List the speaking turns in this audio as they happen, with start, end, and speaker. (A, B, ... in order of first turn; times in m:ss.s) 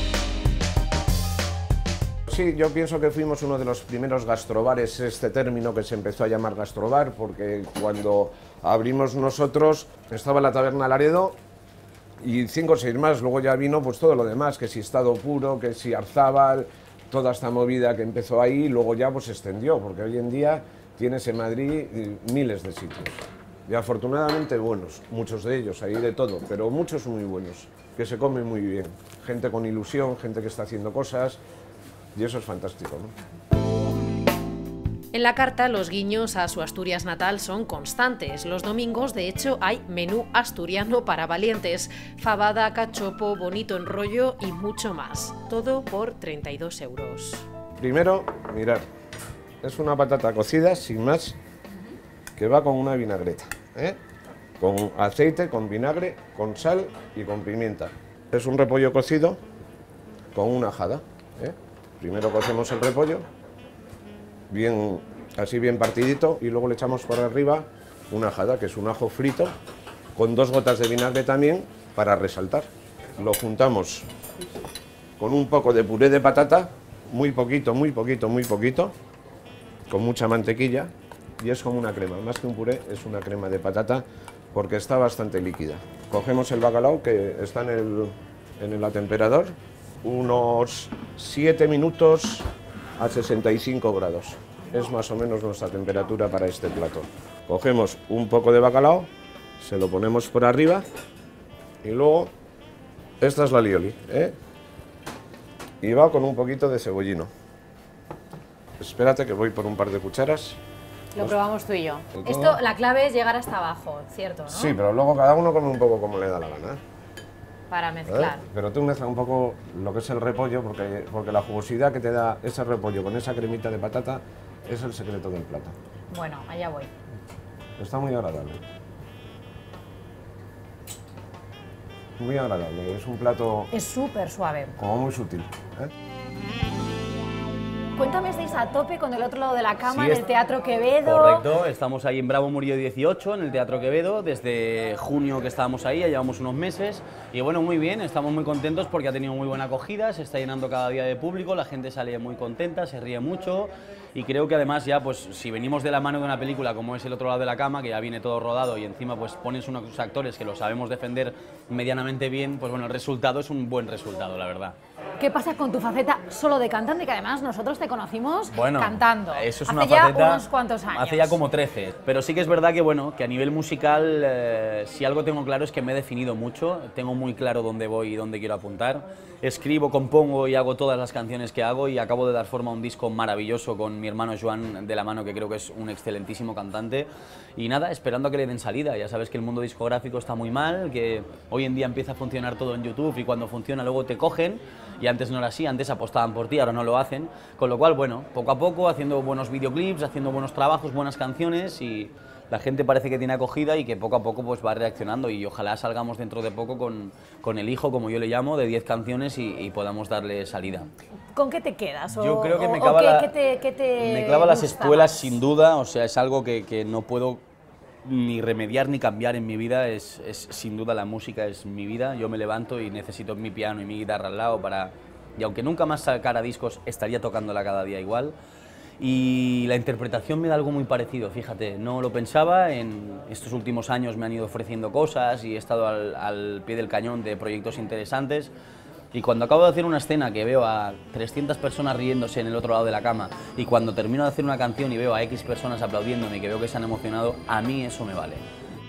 0:02.3-0:11.4 A
0:12.2-0:31.4 A
0:32.1-0:33.1 A
0:35.1-0:47.4 B
0:47.8-0:48.8 A
0:49.6-0:51.4 A
0:52.4-0:54.0 A
0:54.6-0:59.4 A
1:00.3-1:03.2 A
1:04.5-1:09.5 A
1:10.2-1:12.6 A
1:13.2-1:14.1 A
1:15.2-1:18.9 A
1:19.9-1:39.1 A
1:39.6-1:40.8 A
1:41.8-1:42.3 A
1:43.2-1:44.3 A
1:45.8-1:47.3 A
1:48.8-1:50.6 A
1:51.1-1:54.7 C
1:52.2-1:52.6 A
1:54.5-1:56.8 A
1:57.7-1:58.4 C
1:58.1-2:05.7 A
2:06.1-2:06.9 C
2:07.8-2:08.6 A
2:12.2-2:13.7 A
2:13.7-2:14.8 C
2:14.8-2:15.9 A
2:18.0-2:21.4 C
2:19.8-2:20.2 D
2:21.0-2:44.8 D
2:45.2-2:51.4 C
2:48.5-3:30.9 D
3:31.3-3:35.3 C
3:32.1-3:33.3 D
3:33.9-3:37.4 D
3:38.0-3:48.3 D
3:49.0-3:58.5 D
3:59.1-4:08.4 D